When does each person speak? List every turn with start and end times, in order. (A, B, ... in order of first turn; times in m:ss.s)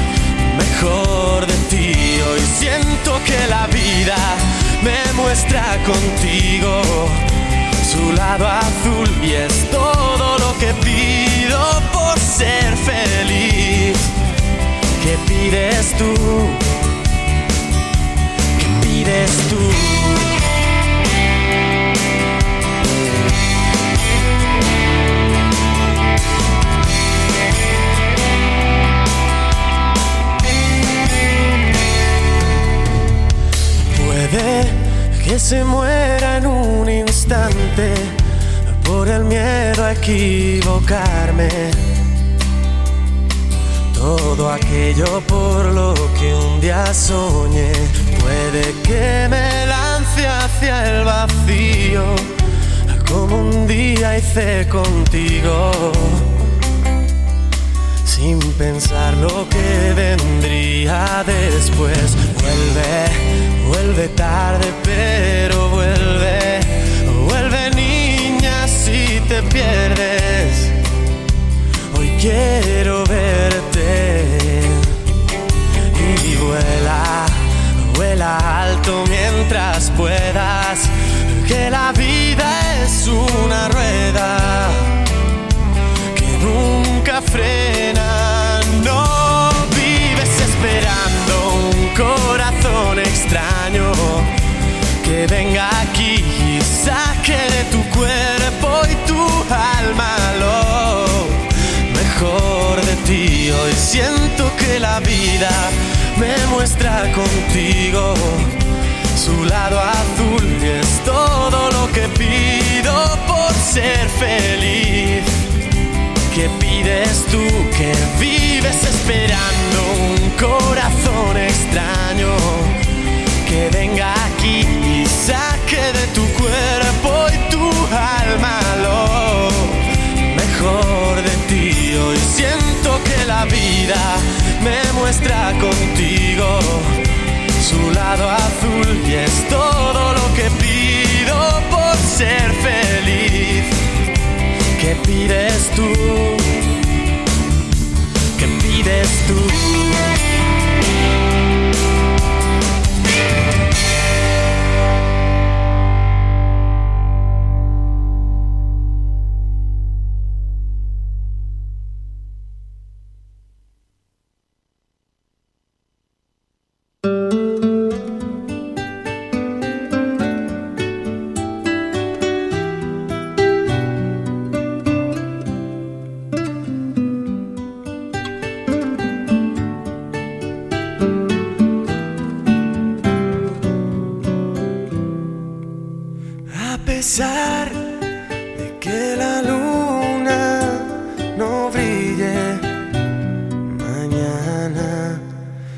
0:00.3-0:14.1 A
0:15.0-0:16.8 A
0:18.6-0:20.4 A
0:33.9-0:42.0 A
0:43.9-0:56.4 A
0:58.0-1:10.8 A
1:11.9-1:15.0 A
1:15.9-1:25.1 A
1:26.1-1:34.4 A
1:35.0-1:55.4 A
1:56.3-2:02.8 A
2:03.4-2:17.0 A
2:17.6-2:23.9 A
2:24.8-2:26.8 A
2:28.4-2:30.2 A
3:06.5-3:08.0 A
3:08.5-3:12.8 A
3:13.6-3:15.3 A